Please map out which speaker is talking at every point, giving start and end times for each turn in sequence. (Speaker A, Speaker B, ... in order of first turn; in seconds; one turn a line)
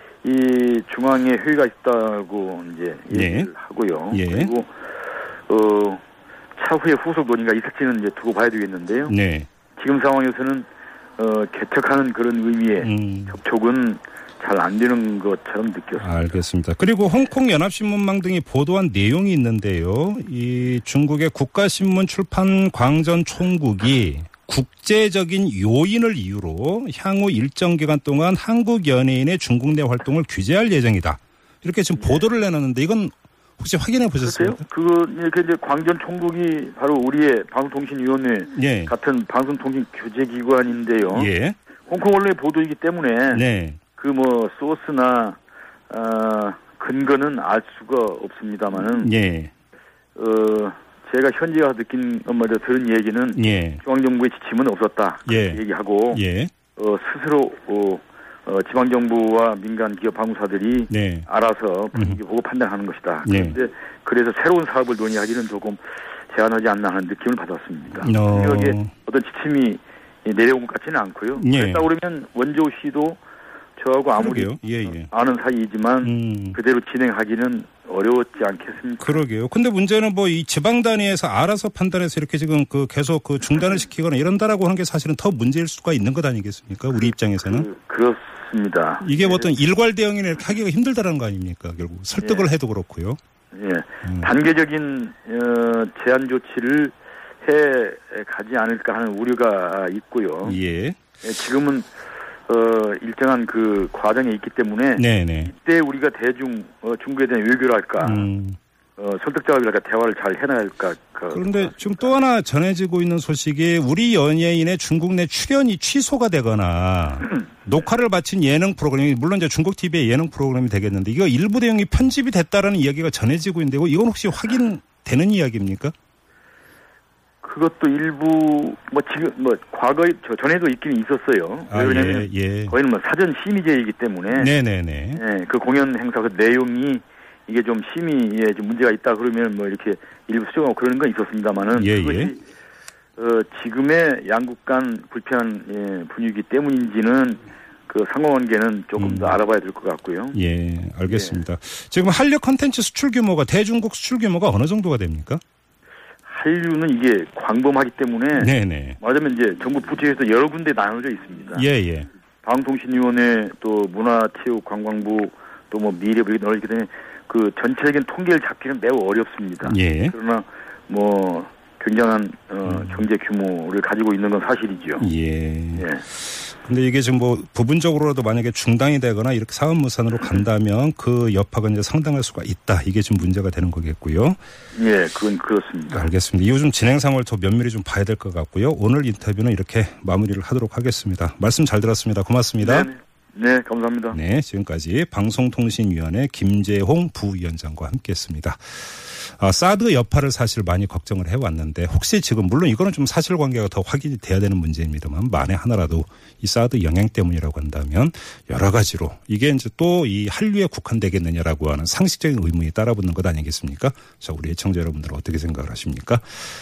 Speaker A: 0.2-4.7
Speaker B: 3.1-3.5
Speaker B: 4.1-4.5
Speaker A: 5.5-6.0
Speaker A: 6.5-9.1
Speaker B: 9.1-9.5
Speaker A: 9.8-16.4
Speaker B: 12.8-13.4
Speaker B: 16.0-34.6
Speaker A: 32.0-32.2
Speaker A: 34.2-41.3
Speaker B: 38.5-38.9
Speaker B: 41.1-41.5
Speaker A: 41.9-43.4
Speaker B: 43.3-43.8
Speaker A: 44.0-45.4
Speaker A: 45.9-49.1
Speaker B: 48.8-49.5
Speaker A: 50.1-56.2
Speaker B: 53.3-53.8
Speaker B: 55.2-56.5
Speaker A: 56.7-73.2
Speaker B: 60.9-61.3
Speaker B: 63.2-63.6
Speaker B: 68.0-68.9
Speaker B: 71.4-71.9
Speaker A: 73.8-79.2
Speaker B: 74.2-75.1
Speaker B: 76.0-76.6
Speaker B: 79.0-87.7
Speaker A: 87.4-89.5
Speaker B: 89.0-93.2
Speaker A: 92.2-92.5
Speaker A: 93.5-100.6
Speaker B: 94.0-94.3
Speaker B: 100.4-101.0
Speaker A: 101.2-101.9
Speaker A: 102.5-108.3
Speaker B: 105.0-105.5
Speaker B: 108.0-108.6
Speaker A: 109.0-112.1
Speaker B: 111.3-125.9
Speaker A: 127.4-134.5
Speaker B: 131.7-132.7
Speaker B: 134.3-135.2
Speaker A: 135.1-142.4
Speaker B: 141.7-142.3
Speaker A: 143.2-150.4
Speaker B: 149.0-149.4
Speaker B: 150.3-155.4
Speaker A: 151.1-151.4
Speaker A: 156.2-161.7
Speaker B: 158.3-159.0
Speaker B: 161.5-162.1
Speaker A: 162.4-175.1
Speaker B: 169.6-170.1
Speaker B: 172.6-173.0
Speaker B: 175.0-184.4
Speaker A: 175.8-176.0
Speaker A: 184.7-186.1
Speaker B: 185.9-192.9
Speaker A: 192.6-194.2
Speaker B: 194.1-216.2